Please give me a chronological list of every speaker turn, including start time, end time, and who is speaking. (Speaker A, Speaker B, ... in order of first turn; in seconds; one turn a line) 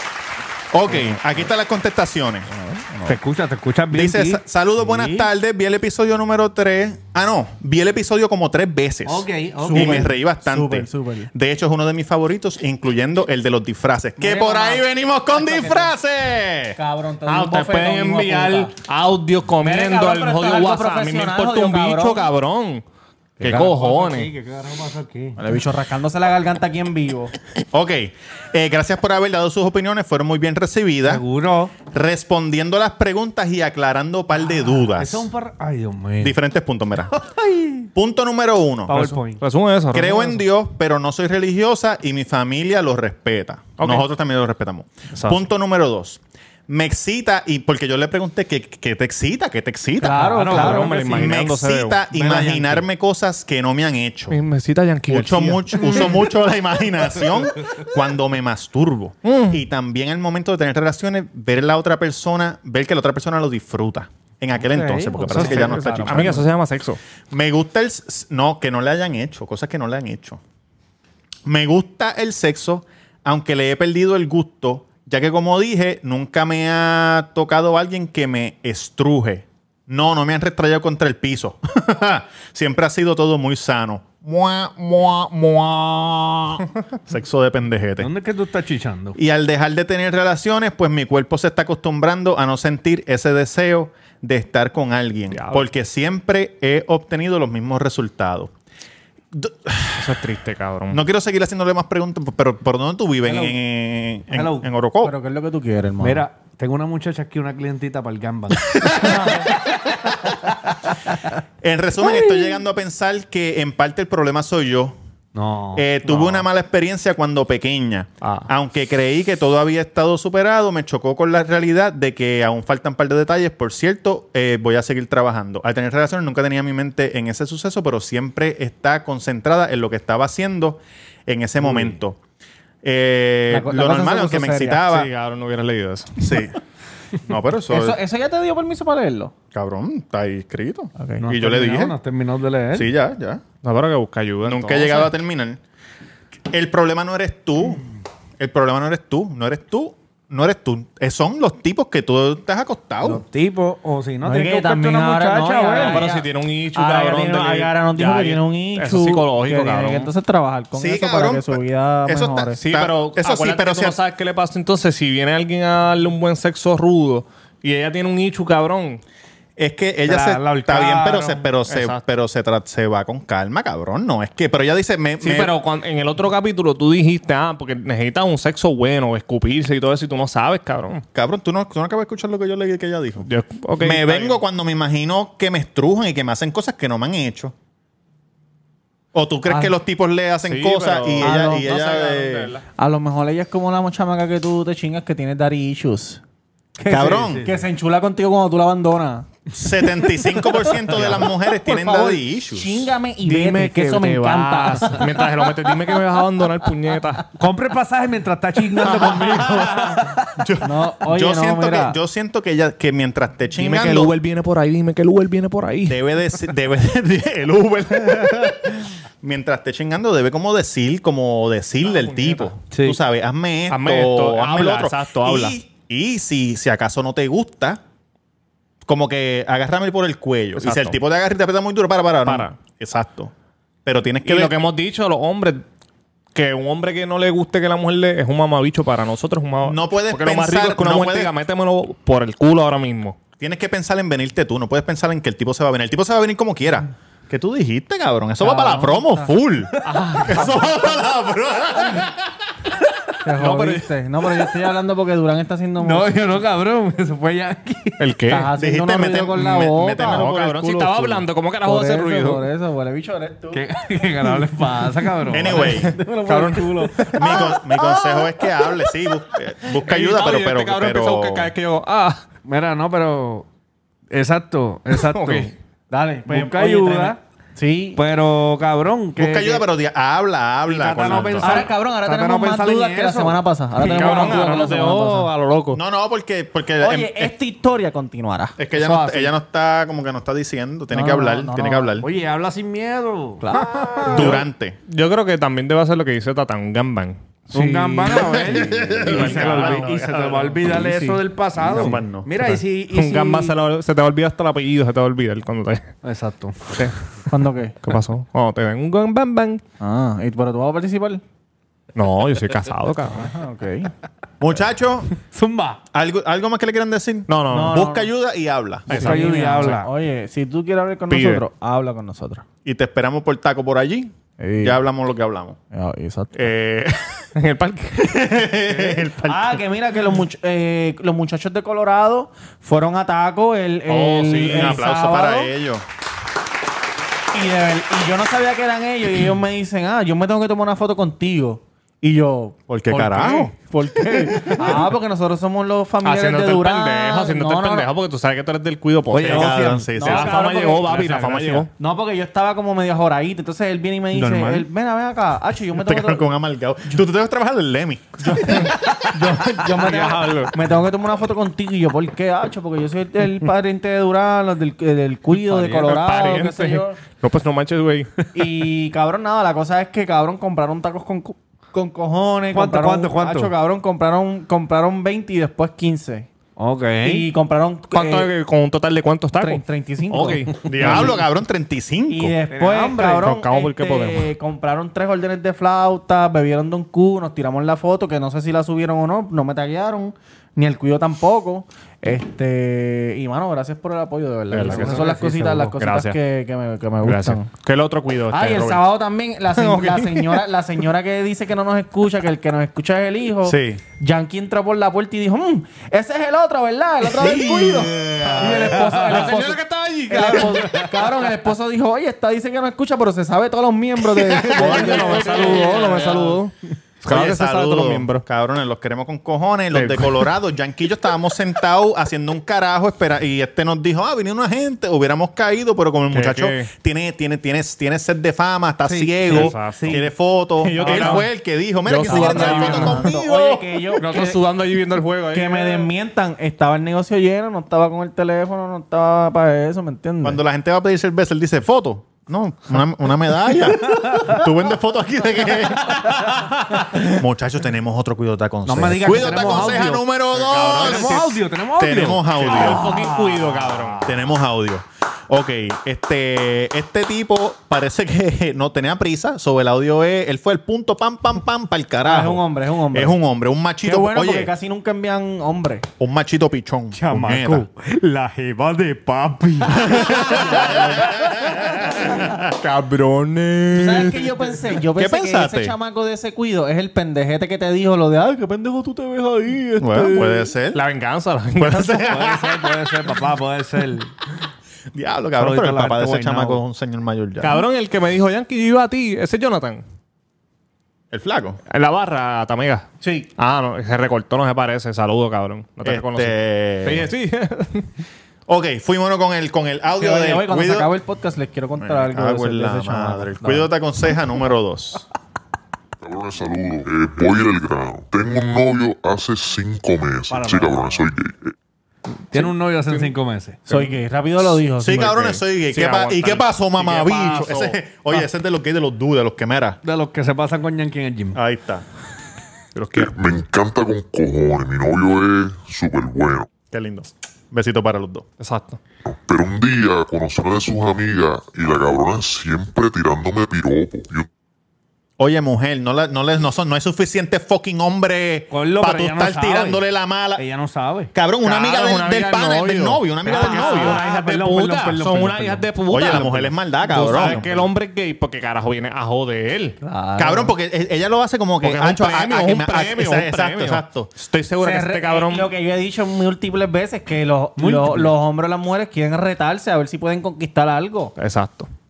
Speaker A: 0.7-2.5
Speaker B: 0.9-1.5
Speaker B: 2.5-3.2
Speaker C: 3.0-4.4
Speaker A: 3.9-16.8
Speaker C: 9.1-10.1
Speaker B: 9.6-11.3
Speaker B: 14.2-15.9
Speaker B: 16.8-18.7
Speaker D: 17.3-22.8
Speaker B: 19.6-22.3
Speaker D: 23.4-24.3
Speaker C: 23.4-25.4
Speaker B: 25.4-27.3
Speaker A: 27.7-31.2
Speaker C: 31.0-31.7
Speaker A: 31.9-35.3
Speaker C: 34.7-36.4
Speaker A: 36.2-37.1
Speaker C: 37.2-37.9
Speaker A: 37.9-39.2
Speaker C: 38.9-39.4
Speaker D: 39.4-40.4
Speaker A: 39.9-54.4
Speaker D: 43.8-44.1
Speaker D: 45.1-45.4
Speaker B: 50.0-51.1
Speaker C: 50.1-51.4
Speaker D: 50.5-52.0
Speaker C: 52.1-52.9
Speaker D: 54.3-56.1
Speaker A: 55.1-66.5
Speaker D: 59.2-59.6
Speaker C: 64.6-66.0
Speaker B: 65.3-66.4
Speaker D: 65.3-67.0
Speaker A: 67.3-70.4
Speaker A: 71.5-88.1
Speaker C: 88.0-89.2
Speaker A: 89.2-98.5
Speaker D: 95.3-95.7
Speaker A: 99.3-100.0
Speaker D: 100.0-101.0
Speaker A: 100.9-105.1
Speaker C: 103.2-103.6
Speaker C: 104.3-104.7
Speaker B: 105.0-106.3
Speaker C: 106.0-109.2
Speaker A: 108.8-109.1
Speaker B: 109.0-109.4
Speaker A: 111.6-115.0
Speaker C: 115.3-116.5
Speaker A: 115.8-132.2
Speaker D: 118.2-118.5
Speaker C: 131.6-132.0
Speaker A: 132.8-135.1
Speaker B: 133.5-134.8
Speaker D: 134.9-136.2
Speaker A: 136.2-136.6
Speaker A: 137.2-138.0
Speaker B: 137.7-139.3
Speaker A: 139.5-142.0
Speaker C: 141.2-142.9
Speaker A: 142.7-143.4
Speaker D: 143.6-145.1
Speaker A: 144.5-145.6
Speaker A: 146.5-147.8
Speaker A: 148.4-153.2
Speaker C: 153.0-156.1
Speaker B: 154.2-162.6
Speaker D: 155.8-160.1
Speaker A: 160.8-164.0
Speaker D: 162.6-169.0
Speaker A: 169.6-175.5
Speaker C: 170.0-171.5
Speaker D: 171.7-172.0
Speaker D: 175.2-181.0
Speaker A: 181.1-183.3
Speaker D: 183.3-184.4
Speaker A: 183.8-187.5
Speaker A: 189.1-192.5
Speaker B: 189.5-189.7
Speaker D: 190.4-192.6
Speaker B: 191.2-191.9
Speaker B: 192.8-196.2
Speaker C: 196.8-197.6
Speaker B: 196.8-199.3
Speaker A: 196.9-197.5
Speaker A: 199.5-202.9
Speaker B: 200.3-205.3
Speaker D: 203.2-207.3
Speaker C: 207.4-210.2
Speaker A: 209.0-209.5
Speaker A: 210.4-214.2
Speaker B: 210.6-212.0
Speaker D: 213.6-216.0
Speaker A: 215.9-227.8
Speaker D: 221.8-222.6
Speaker C: 222.7-223.0
Speaker D: 223.7-225.6
Speaker A: 228.9-233.3
Speaker D: 230.6-231.0
Speaker D: 232.3-232.6
Speaker A: 233.8-234.6
Speaker D: 234.2-235.6
Speaker D: 236.3-243.2
Speaker A: 239.7-241.3
Speaker A: 243.4-252.2
Speaker B: 248.4-249.4
Speaker D: 249.8-250.6
Speaker B: 253.2-256.3
Speaker D: 253.4-253.9
Speaker C: 255.8-258.0
Speaker D: 258.0-258.5
Speaker B: 258.3-260.3
Speaker A: 258.6-261.2
Speaker D: 260.0-262.5
Speaker B: 261.6-263.6
Speaker C: 263.5-267.4
Speaker A: 265.3-265.9
Speaker B: 265.4-267.6
Speaker D: 266.3-267.1
Speaker A: 267.1-271.5
Speaker D: 269.8-272.2
Speaker C: 272.4-273.5
Speaker C: 274.1-275.6
Speaker D: 274.9-275.5
Speaker B: 275.9-278.0
Speaker C: 276.3-277.2
Speaker C: 277.9-279.7
Speaker A: 279.2-281.7
Speaker C: 280.7-283.5
Speaker B: 281.4-285.3
Speaker D: 283.8-285.8
Speaker A: 284.0-284.2
Speaker C: 284.0-284.4
Speaker A: 285.7-287.3
Speaker B: 286.8-288.6
Speaker A: 288.6-292.1
Speaker C: 288.8-289.3
Speaker B: 290.9-291.9
Speaker C: 292.0-294.4
Speaker B: 293.4-294.4
Speaker D: 294.0-298.5
Speaker A: 294.1-294.8
Speaker C: 297.5-303.6
Speaker A: 298.2-300.4
Speaker D: 299.0-300.6
Speaker B: 300.8-301.1
Speaker A: 301.6-302.3
Speaker D: 302.4-305.9
Speaker C: 306.0-306.9
Speaker B: 307.3-307.8
Speaker D: 307.8-309.6
Speaker B: 309.8-311.2
Speaker D: 311.9-313.3
Speaker B: 313.2-313.9
Speaker A: 314.4-315.1
Speaker C: 315.3-315.8
Speaker A: 315.9-319.0
Speaker D: 317.3-317.9
Speaker B: 317.5-318.1
Speaker D: 318.9-319.8
Speaker C: 318.9-319.9
Speaker B: 318.9-322.4
Speaker D: 321.1-321.4
Speaker A: 322.6-325.6
Speaker B: 324.4-324.8
Speaker B: 325.7-326.5
Speaker A: 326.3-327.2
Speaker D: 327.4-328.5
Speaker A: 328.1-329.6
Speaker B: 329.2-335.5
Speaker D: 333.9-334.8
Speaker A: 334.5-335.9
Speaker B: 337.3-347.9
Speaker A: 342.7-343.5
Speaker D: 346.0-351.7
Speaker C: 349.1-350.2
Speaker A: 349.3-350.4
Speaker B: 349.9-351.1
Speaker C: 350.8-351.7
Speaker B: 351.8-356.2
Speaker C: 354.1-354.7
Speaker A: 355.8-358.5
Speaker B: 358.2-367.0
Speaker D: 358.5-358.8
Speaker D: 359.5-360.6
Speaker D: 365.3-368.3
Speaker B: 368.3-376.3
Speaker C: 372.5-373.5
Speaker C: 376.6-377.3
Speaker B: 377.0-378.3
Speaker D: 377.9-381.2
Speaker B: 379.4-381.1
Speaker A: 380.7-382.3
Speaker B: 382.1-397.5
Speaker C: 382.5-383.3
Speaker D: 383.1-384.3
Speaker D: 394.5-396.2
Speaker C: 394.7-395.2
Speaker D: 397.0-398.8
Speaker B: 398.3-416.4
Speaker D: 399.6-400.2
Speaker A: 403.4-403.8
Speaker C: 407.1-409.3
Speaker D: 408.4-410.9
Speaker C: 410.2-411.0
Speaker D: 414.5-418.2
Speaker C: 414.6-416.0
Speaker A: 417.1-434.0
Speaker D: 419.7-420.3
Speaker D: 426.1-426.7
Speaker C: 428.9-430.1
Speaker D: 429.3-430.0
Speaker D: 430.6-431.3
Speaker B: 430.8-431.2
Speaker D: 431.9-433.1
Speaker B: 432.0-434.4
Speaker D: 434.0-435.9
Speaker B: 435.3-440.4
Speaker A: 440.2-452.9
Speaker C: 448.7-450.1
Speaker D: 449.1-451.3
Speaker C: 450.7-454.2
Speaker D: 452.4-454.1
Speaker A: 454.0-464.5
Speaker B: 462.0-463.2
Speaker B: 463.8-465.9
Speaker A: 466.0-467.7
Speaker C: 466.9-471.3
Speaker A: 469.9-470.8
Speaker B: 470.4-470.6
Speaker D: 472.5-474.4
Speaker B: 473.7-480.5
Speaker A: 475.0-475.8
Speaker A: 479.8-480.8
Speaker D: 480.7-482.1
Speaker A: 481.6-482.7
Speaker C: 482.1-484.1
Speaker A: 484.9-487.6
Speaker C: 485.4-486.6
Speaker D: 487.4-489.8
Speaker A: 491.1-491.6
Speaker D: 491.7-497.9
Speaker B: 493.0-493.3
Speaker A: 495.8-497.1
Speaker A: 498.5-500.9
Speaker B: 500.0-503.7
Speaker A: 501.8-505.1
Speaker E: 506.0-511.5
Speaker C: 510.3-511.0
Speaker D: 512.3-513.1
Speaker C: 512.3-513.6
Speaker B: 513.7-515.2
Speaker A: 514.8-519.8
Speaker D: 515.0-517.8
Speaker C: 519.8-521.4
Speaker A: 521.4-521.8
Speaker D: 522.8-523.1
Speaker E: 522.9-526.5
Speaker A: 526.7-528.3
Speaker D: 528.4-528.8
Speaker E: 529.0-534.3
Speaker A: 535.2-540.5
Speaker C: 538.5-539.8
Speaker C: 540.4-541.1
Speaker A: 541.1-544.0
Speaker D: 541.4-549.8
Speaker C: 543.2-545.7
Speaker A: 545.9-547.5
Speaker B: 547.0-547.4
Speaker B: 549.8-550.5
Speaker A: 550.2-554.1
Speaker D: 551.6-555.5
Speaker B: 554.6-561.1
Speaker C: 557.6-558.2
Speaker D: 561.2-561.7